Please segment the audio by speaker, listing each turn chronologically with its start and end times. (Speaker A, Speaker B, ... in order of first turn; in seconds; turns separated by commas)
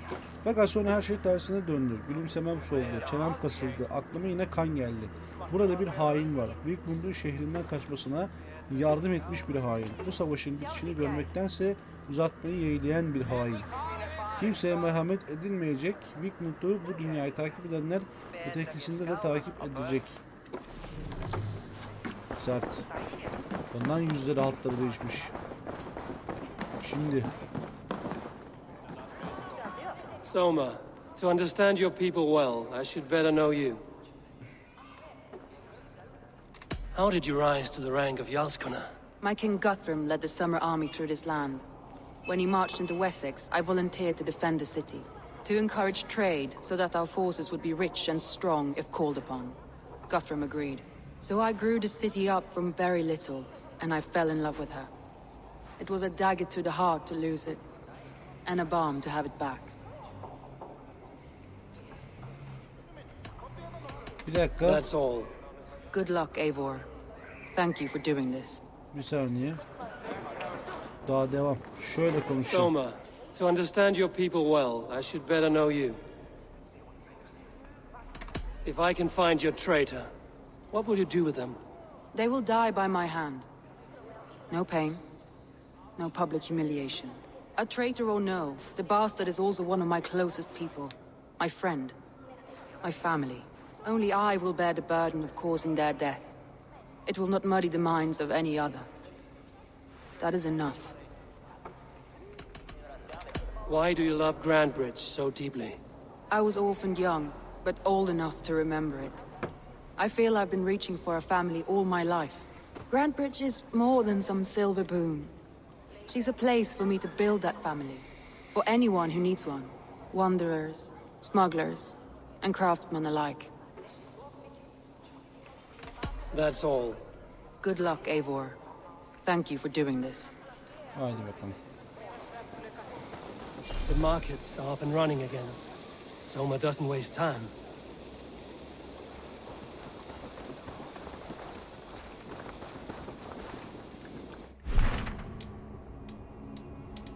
Speaker A: 0.4-13.7, Speaker A: 14.4-20.2, Speaker A: 22.4-22.9, Speaker A: 23.7-25.3, Speaker A: 26.8-27.3, Speaker B: 30.2-33.9, Speaker B: 36.9-38.9, Speaker C: 39.2-41.7, Speaker C: 42.3-49.6, Speaker C: 50.1-54.9, Speaker C: 55.8-57.6, Speaker C: 58.5-59.7, Speaker A: 64.2-64.8, Speaker B: 64.6-65.3, Speaker C: 65.9-66.9, Speaker C: 67.5-68.6, Speaker A: 68.9-69.6, Speaker A: 71.0-72.7, Speaker B: 72.4-76.0, Speaker B: 78.7-80.1, Speaker B: 80.7-81.6, Speaker C: 82.1-83.5, Speaker C: 84.5-85.0, Speaker C: 86.0-92.0, Speaker C: 92.8-96.3, Speaker C: 97.1-98.9, Speaker C: 100.2-101.0, Speaker B: 103.7-105.8, Speaker C: 106.3-109.2, Speaker C: 110.0-115.3, Speaker C: 116.1-123.5, Speaker B: 126.3-127.0, Speaker C: 127.6-128.6, Speaker C: 129.2-130.3, Speaker A: 130.9-131.6, Speaker B: 133.9-135.6, Speaker B: 136.2-137.5